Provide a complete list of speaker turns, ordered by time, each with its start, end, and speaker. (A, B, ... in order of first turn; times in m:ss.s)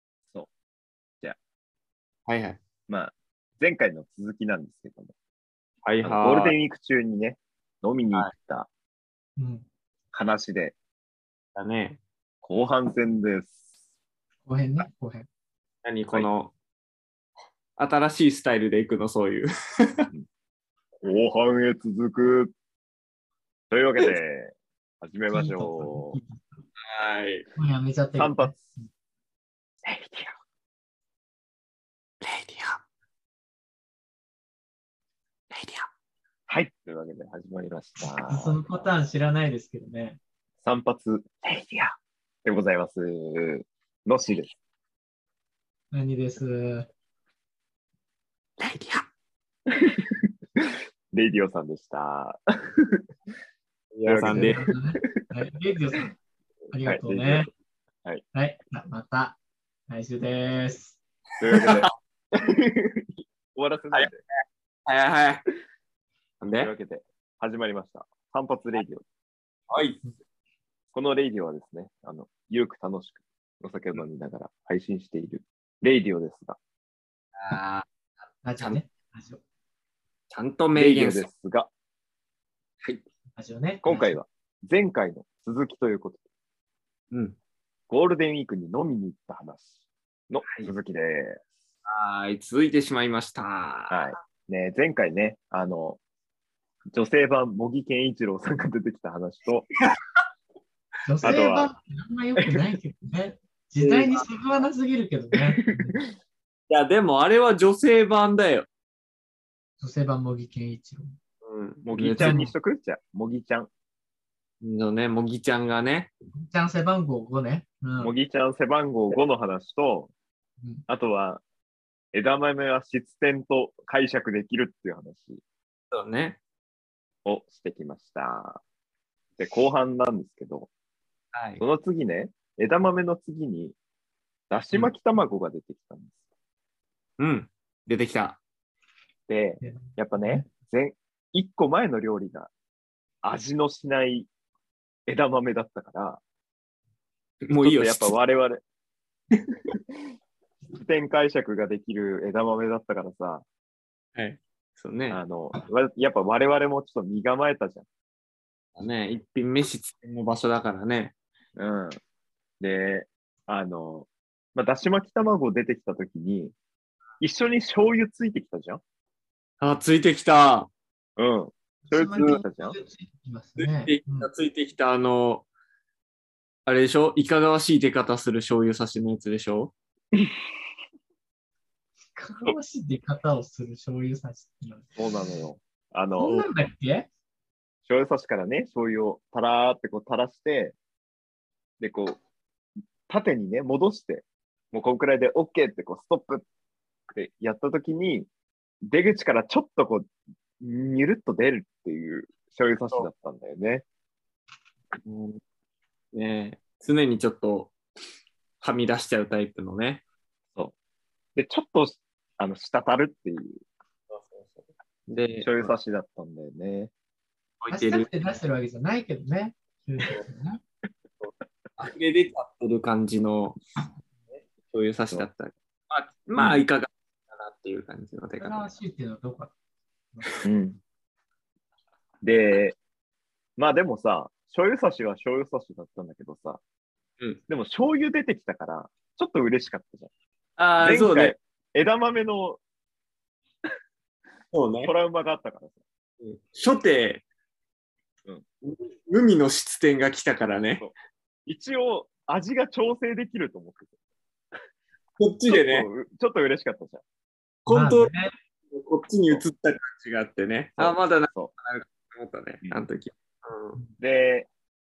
0:02.2-0:02.6 A
0:02.9-0:05.1 B
0:05.8-0:06.5 A
0:06.0-0:08.7 B
0:09.4-0:09.6 C
0:10.1-0:10.8 B
0:11.5-0:12.0 A
0:12.4-0:13.6 B
0:14.4-0:15.3 C
0:15.8-0:16.5 A
0:17.8-0:20.1 A
0:21.0-0:22.5 B
0:23.7-0:26.2 B
0:25.3-0:26.6 C
0:26.8-0:27.4 A
0:27.6-0:28.9 C
0:28.1-0:28.7 B
0:29.8-0:30.3 B
0:32.2-0:32.8 A
0:35.5-0:35.9 A
0:36.5-0:38.8 B
0:38.2-0:40.2 C
0:40.6-0:41.9 B
0:42.4-0:44.6 B
0:45.9-0:46.9 C
0:48.6-0:49.0 A
0:49.8-0:53.0 B
0:53.9-0:54.7 A
0:54.0-0:54.7 B
0:54.3-0:56.2 C
0:56.7-0:57.5 C
0:56.8-0:57.5 B
0:58.3-0:59.4 C
0:59.9-1:01.0 C
1:01.4-1:04.2 B
1:01.5-1:01.9 A
1:04.9-1:05.4 A
1:06.4-1:06.7 A
1:06.6-1:09.0 B
1:09.7-1:10.0 A
1:10.9-1:16.6 B
1:17.4-1:17.9 A
1:18.4-1:19.4 C
1:20.3-1:21.3 A
1:20.8-1:21.7 B
1:23.4-1:24.2 C
1:23.8-1:26.2 B
1:27.1-1:27.4 A
1:27.9-1:29.8 B
1:30.3-1:31.4 B
1:30.4-1:30.7 A
1:31.9-1:34.1 A
1:33.9-1:36.0 B
1:36.9-1:39.7 B
1:41.0-1:46.0 C
1:41.2-1:41.7 B
1:43.8-1:44.2 A
1:46.7-1:48.7 A
1:49.8-1:51.1 C
1:51.4-1:52.4 A
1:51.8-1:53.7 B
1:52.2-1:52.6 C
1:54.6-1:56.1 A
1:56.3-1:58.1 C
1:58.0-2:00.1 B
2:00.9-2:01.4 B
2:02.1-2:05.4 B
2:05.9-2:06.4 A
2:07.2-2:08.6 B
2:09.4-2:10.7 B
2:11.3-2:11.6 A
2:11.6-2:13.8 B
2:14.5-2:16.2 B
2:17.2-2:18.4 A
2:19.3-2:22.5 B
2:19.6-2:20.5 C
2:23.2-2:24.3 B
2:25.1-2:26.2 B
2:27.4-2:28.1 A
2:27.6-2:28.6 B
2:30.8-2:33.4 B
2:34.2-2:35.2 A
2:35.1-2:37.8 B
2:38.8-2:41.2 A
2:41.6-2:42.0 B
2:42.6-2:46.5 B
2:47.2-2:48.8 B
2:49.6-2:50.7 A
2:51.2-2:52.8 B
2:51.8-2:54.3 C
2:53.6-2:55.5 A
2:56.7-2:59.7 A
3:02.2-3:04.9 C
3:05.0-3:06.5 B
3:06.2-3:07.1 C
3:07.8-3:10.8 B
3:11.8-3:12.2 B
3:13.1-3:16.4 B
3:17.1-3:18.3 B
3:18.9-3:20.1 B
3:20.6-3:23.8 B
3:25.0-3:25.4 A
3:26.1-3:27.8 A
3:28.6-3:30.0 A
3:31.4-3:33.6 B
3:34.1-3:35.7 A
3:35.4-3:36.9 B
3:37.6-3:38.1 A
3:37.7-3:40.6 C
3:41.8-3:43.6 A
3:44.6-3:48.7 A
3:46.4-3:46.6 B
3:48.4-3:49.5 C
3:50.2-3:50.4 C
3:50.4-3:50.8 B
3:52.2-3:52.8 B
3:53.6-3:56.6 B
3:57.5-4:00.1 B
4:00.6-4:01.3 A
4:00.8-4:02.6 B
4:04.5-4:04.9 A
4:04.8-4:05.8 B
4:06.2-4:07.2 A
4:08.6-4:10.8 A
4:10.8-4:14.0 B
4:15.2-4:15.9 A
4:15.5-4:17.0 B
4:17.6-4:18.1 A
4:17.7-4:18.3 C
4:18.7-4:23.8 A
4:20.8-4:21.5 B
4:24.0-4:24.5 B